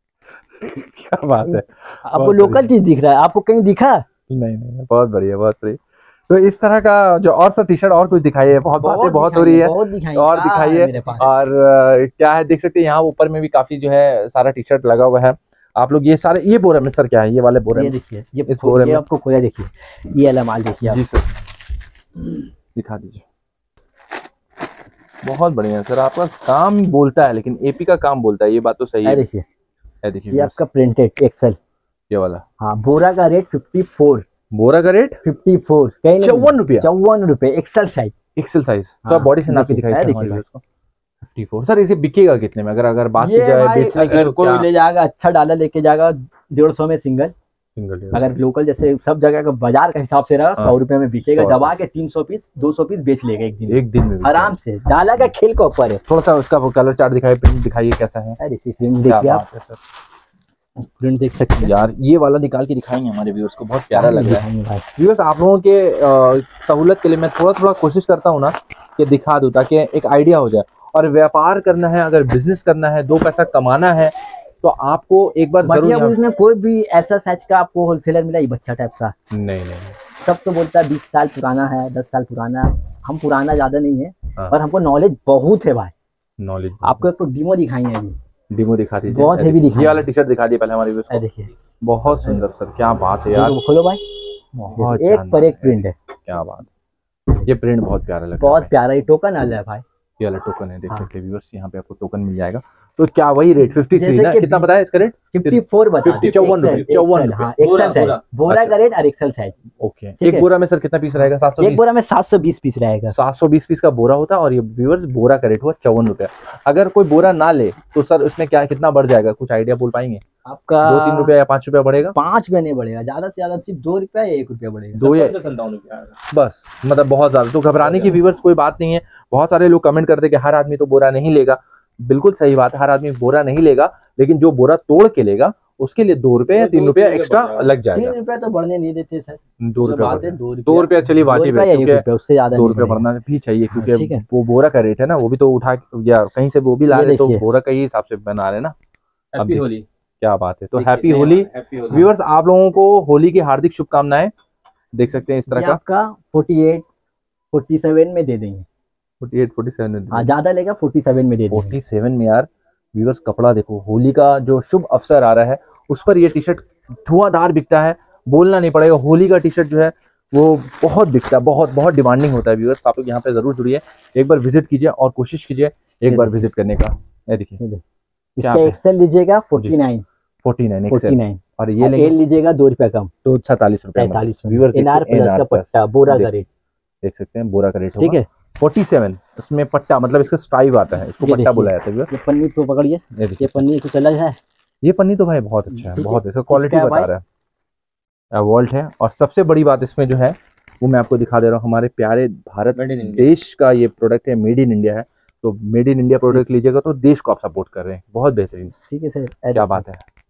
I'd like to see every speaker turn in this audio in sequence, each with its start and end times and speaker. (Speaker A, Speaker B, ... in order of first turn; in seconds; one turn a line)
Speaker A: 0.6-2.7
Speaker B: 1.5-4.0
Speaker A: 4.3-19.0
Speaker B: 8.8-11.3
Speaker B: 17.7-21.0
Speaker A: 20.9-21.3
Speaker A: 22.7-23.2
Speaker A: 25.2-29.2
Speaker B: 29.0-29.4
Speaker A: 30.0-30.6
Speaker B: 30.3-31.6
Speaker A: 32.1-32.4
Speaker B: 32.6-34.2
Speaker A: 34.5-35.2
Speaker B: 35.2-38.1
Speaker A: 36.2-36.9
Speaker A: 38.4-40.6
Speaker B: 39.0-40.4
Speaker A: 41.2-44.7
Speaker B: 43.2-47.3
Speaker C: 44.0-44.3
Speaker A: 47.8-48.4
Speaker B: 48.1-56.0
Speaker A: 50.6-51.7
Speaker A: 53.7-54.5
Speaker A: 56.1-58.4
Speaker B: 58.4-59.4
Speaker A: 59.0-59.8
Speaker B: 60.8-61.7
Speaker A: 61.6-64.5
Speaker B: 63.9-64.8
Speaker A: 65.0-76.2
Speaker B: 75.6-79.1
Speaker A: 79.3-80.0
Speaker B: 80.2-85.9
Speaker A: 86.4-87.1
Speaker B: 86.8-88.2
Speaker A: 88.5-91.2
Speaker B: 89.1-90.1
Speaker B: 91.1-91.5
Speaker A: 91.8-93.6
Speaker B: 93.3-94.0
Speaker A: 94.5-96.7
Speaker B: 94.8-95.9
Speaker A: 97.4-98.7
Speaker B: 98.4-99.8
Speaker A: 100.2-108.8
Speaker B: 103.9-104.7
Speaker B: 105.3-109.6
Speaker C: 107.6-108.2
Speaker A: 109.8-111.9
Speaker B: 110.2-110.5
Speaker B: 111.6-113.1
Speaker A: 113.1-120.2
Speaker B: 120.5-121.3
Speaker A: 120.8-122.1
Speaker B: 122.1-125.1
Speaker A: 125.0-125.4
Speaker C: 125.0-126.2
Speaker A: 126.3-138.1
Speaker C: 127.8-128.2
Speaker C: 136.5-137.7
Speaker B: 137.9-143.0
Speaker A: 139.6-148.7
Speaker B: 143.7-144.2
Speaker B: 146.9-147.4
Speaker C: 149.3-149.8
Speaker A: 149.3-149.7
Speaker A: 150.2-154.3
Speaker C: 150.7-152.1
Speaker A: 154.9-155.8
Speaker B: 155.5-156.8
Speaker B: 157.5-158.7
Speaker A: 159.2-160.3
Speaker B: 160.1-161.8
Speaker A: 161.5-177.6
Speaker B: 176.1-176.4
Speaker B: 178.4-180.0
Speaker A: 178.4-178.8
Speaker A: 180.4-182.2
Speaker B: 180.9-183.1
Speaker A: 183.2-186.3
Speaker B: 183.9-186.5
Speaker A: 187.0-192.1
Speaker B: 188.0-188.2
Speaker B: 191.2-194.4
Speaker A: 193.1-193.6
Speaker A: 194.8-197.2
Speaker B: 195.7-197.1
Speaker A: 198.3-208.7
Speaker C: 202.7-203.3
Speaker B: 208.8-209.8
Speaker A: 209.5-210.0